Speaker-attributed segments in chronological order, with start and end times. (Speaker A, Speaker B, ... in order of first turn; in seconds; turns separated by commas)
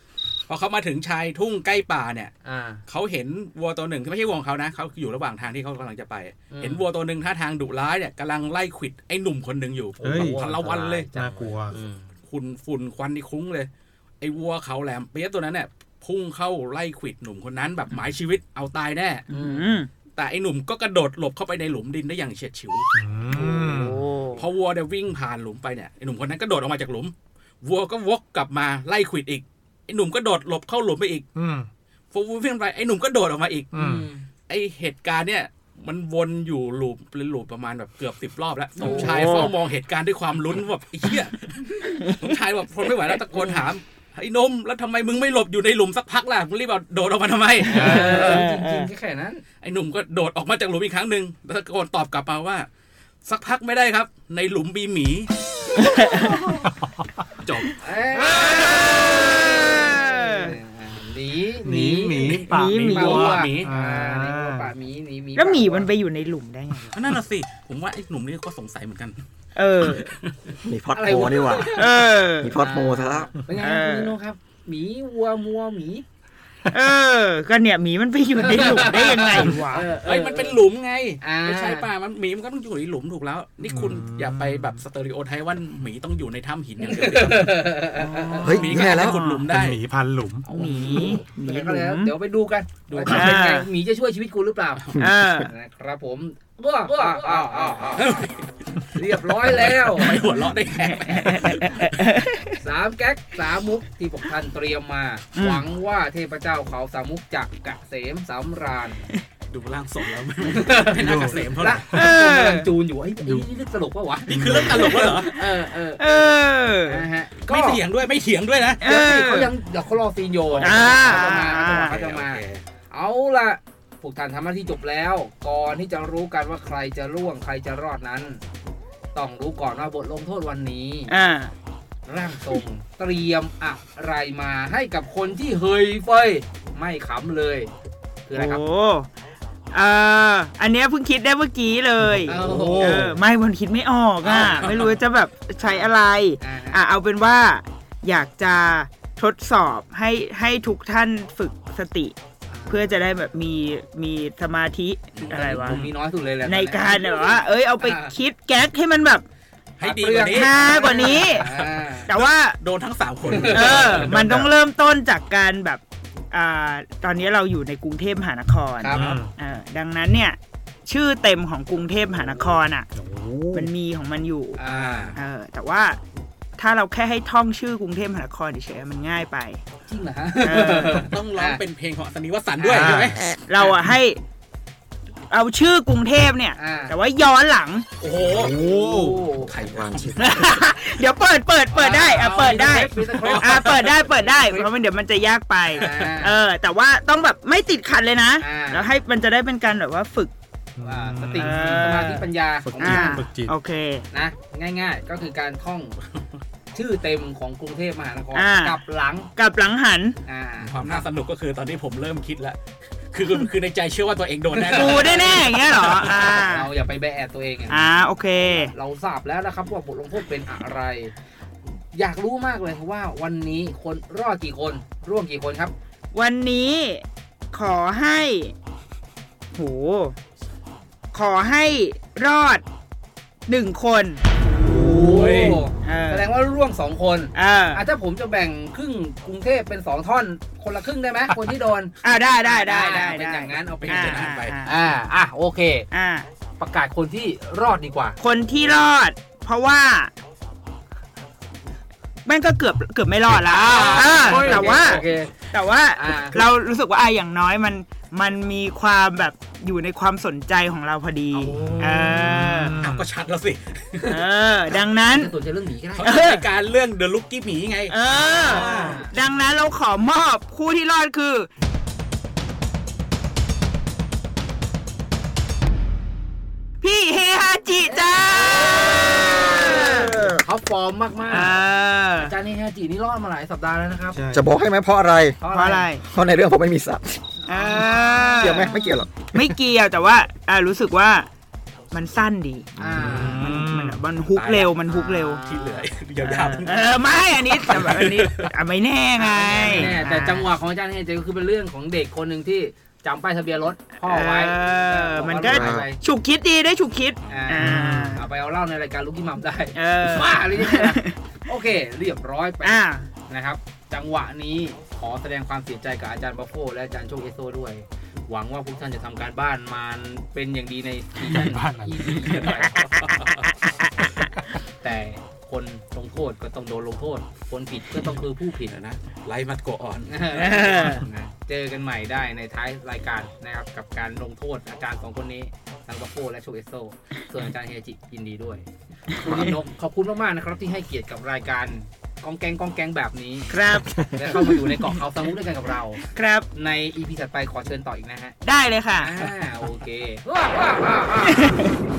Speaker A: 0.5-2.3, Speaker B: 2.4-2.8, Speaker A: 2.9-11.1, Speaker B: 6.5-6.8, Speaker C: 10.0-10.4, Speaker B: 10.0-12.1, Speaker C: 11.1-11.8, Speaker A: 12.3-13.7, Speaker A: 14.2-19.3, Speaker D: 19.3-19.9, Speaker B: 19.3-19.6, Speaker A: 20.2-22.9, Speaker C: 22.9-23.9, Speaker D: 23.3-24.4, Speaker A: 24.3-31.2, Speaker C: 31.4-31.7, Speaker A: 32.1-33.8, Speaker C: 33.7-34.1, Speaker B: 33.8-34.3, Speaker A: 34.5-48.5, Speaker D: 38.8-39.5, Speaker B: 38.8-39.5, Speaker D: 47.7-48.9, Speaker B: 47.7-49.4, Speaker C: 47.7-48.1, Speaker A: 49.6-52.7, Speaker A: 53.2-55.3, Speaker D: 55.8-56.5, Speaker C: 56.6-57.0, Speaker A: 57.4-57.7, Speaker B: 57.8-62.3, Speaker D: 58.3-60.6, Speaker C: 61.6-62.7, Speaker A: 62.2-63.7, Speaker D: 62.5-63.4, Speaker B: 62.9-65.9, Speaker C: 63.6-64.7, Speaker D: 65.3-67.0, Speaker A: 66.9-69.2, Speaker D: 69.6-70.1, Speaker A: 69.8-70.5, Speaker E: 70.7-71.7, Speaker B: 71.0-72.0, Speaker D: 71.7-72.6, Speaker E: 72.4-73.3, Speaker B: 72.6-76.0, Speaker D: 73.6-74.1, Speaker D: 76.7-79.9, Speaker B: 78.4-80.6, Speaker A: 80.0-87.8, Speaker B: 81.2-81.9, Speaker C: 83.7-84.8, Speaker B: 86.8-88.6, Speaker D: 88.0-89.5, Speaker E: 88.4-89.2, Speaker A: 88.5-89.8, Speaker C: 89.5-90.5, Speaker A: 90.5-91.2, Speaker B: 90.5-94.9, Speaker D: 90.5-92.1, Speaker A: 92.9-93.3, Speaker D: 93.0-93.7, Speaker D: 95.0-95.5, Speaker E: 95.0-95.3, Speaker B: 95.5-98.1, Speaker A: 97.9-98.4, Speaker B: 98.9-100.2, Speaker A: 99.3-102.1, Speaker D: 101.1-102.5, Speaker B: 102.6-109.1, Speaker D: 105.3-105.6, Speaker A: 109.5-111.9, Speaker B: 110.5-117.8, Speaker C: 111.0-112.0, Speaker D: 111.9-112.7, Speaker C: 113.2-113.5, Speaker A: 114.2-115.3, Speaker C: 114.3-114.9, Speaker D: 114.7-115.3, Speaker D: 116.0-117.1, Speaker A: 117.4-118.8, Speaker D: 118.8-119.5, Speaker B: 118.8-128.4, Speaker A: 120.5-122.7, Speaker D: 120.6-122.0, Speaker B: 129.1-131.1, Speaker D: 131.1-131.5, Speaker B: 132.1-137.7, Speaker B: 138.3-138.6, Speaker D: 138.3-139.1, Speaker D: 139.7-152.2, Speaker C: 142.0-143.2, Speaker B: 142.3-143.1, Speaker B: 144.2-145.0, Speaker B: 145.6-145.9, Speaker B: 146.4-146.8, Speaker B: 152.5-153.0, Speaker D: 152.7-155.9, Speaker B: 155.2-158.2, Speaker A: 155.3-155.9, Speaker D: 156.4-159.3, Speaker A: 159.8-164.6, Speaker B: 159.8-162.1, Speaker D: 160.3-161.5, Speaker D: 162.1-162.6, Speaker B: 163.2-164.1, Speaker D: 163.5-172.9, Speaker B: 168.8-169.1, Speaker C: 168.9-169.3, Speaker C: 172.9-173.7, Speaker D: 173.5-174.6, Speaker B: 174.6-175.2, Speaker A: 174.7-175.2, Speaker D: 175.2-176.0, Speaker D: 176.6-179.6, Speaker B: 179.9-181.6, Speaker D: 180.4-181.1, Speaker A: 181.1-183.7, Speaker B: 182.6-183.1, Speaker C: 182.8-183.2, Speaker D: 183.2-184.2, Speaker D: 185.3-187.9, Speaker B: 186.6-186.9, Speaker A: 188.0-188.6, Speaker C: 188.2-189.2, Speaker B: 188.5-189.7, Speaker A: 189.5-190.1, Speaker E: 189.5-190.5, Speaker D: 190.2-200.3, Speaker B: 191.7-194.7, Speaker A: 193.2-194.0, Speaker A: 195.7-196.2, Speaker B: 195.7-196.4, Speaker B: 198.4-198.9, Speaker C: 200.8-201.9, Speaker B: 200.8-203.2, Speaker D: 201.3-202.3, Speaker C: 202.6-203.5, Speaker D: 202.8-204.1, Speaker B: 204.1-206.0, Speaker B: 206.7-209.3, Speaker D: 208.3-208.8, Speaker D: 209.3-210.2, Speaker B: 210.2-211.1, Speaker A: 210.6-212.6, Speaker A: 213.1-216.2, Speaker B: 214.5-221.1, Speaker D: 214.7-216.7, Speaker D: 217.7-218.7, Speaker B: 221.9-225.7, Speaker D: 226.1-228.5, Speaker D: 229.5-230.2, Speaker D: 231.1-232.6, Speaker D: 233.5-234.2, Speaker A: 234.7-235.6, Speaker B: 234.7-245.9, Speaker D: 235.8-236.3, Speaker D: 237.3-237.8, Speaker D: 242.0-244.7, Speaker A: 243.7-244.6, Speaker D: 245.9-246.3, Speaker B: 246.6-248.2, Speaker D: 248.2-250.1, Speaker D: 252.2-262.8, Speaker B: 253.3-255.3, Speaker A: 253.5-255.2, Speaker B: 255.9-256.4, Speaker A: 261.3-264.2, Speaker C: 261.5-263.1, Speaker D: 264.1-265.4, Speaker B: 265.1-266.1, Speaker A: 266.0-269.1, Speaker D: 266.0-266.4, Speaker D: 267.9-271.5, Speaker B: 268.3-269.1, Speaker D: 276.8-280.2, Speaker B: 277.9-281.5, Speaker D: 281.3-282.3, Speaker B: 282.2-284.2, Speaker C: 284.1-284.4, Speaker E: 284.3-285.4, Speaker B: 285.4-285.9, Speaker D: 285.5-286.1, Speaker E: 286.1-287.4, Speaker B: 287.4-288.5, Speaker D: 287.5-291.3, Speaker E: 288.4-289.6, Speaker D: 291.9-295.4, Speaker E: 292.8-293.1, Speaker B: 292.8-293.5, Speaker C: 293.0-294.0, Speaker A: 294.3-294.8, Speaker B: 294.9-295.9, Speaker A: 295.4-298.5, Speaker D: 296.2-300.5, Speaker B: 299.2-306.0, Speaker D: 304.0-308.3, Speaker E: 305.5-305.9, Speaker B: 307.3-322.8, Speaker C: 307.6-308.1, Speaker D: 309.7-311.1, Speaker D: 312.6-313.1, Speaker C: 321.2-322.3, Speaker A: 322.0-323.5, Speaker D: 323.7-324.1, Speaker B: 324.8-328.8, Speaker A: 328.7-331.1, Speaker B: 330.1-346.0, Speaker D: 330.7-331.0, Speaker D: 339.2-339.5, Speaker D: 343.5-344.3, Speaker D: 346.1-346.5, Speaker B: 346.5-348.4, Speaker D: 348.4-349.3, Speaker B: 349.0-351.6, Speaker D: 351.3-351.8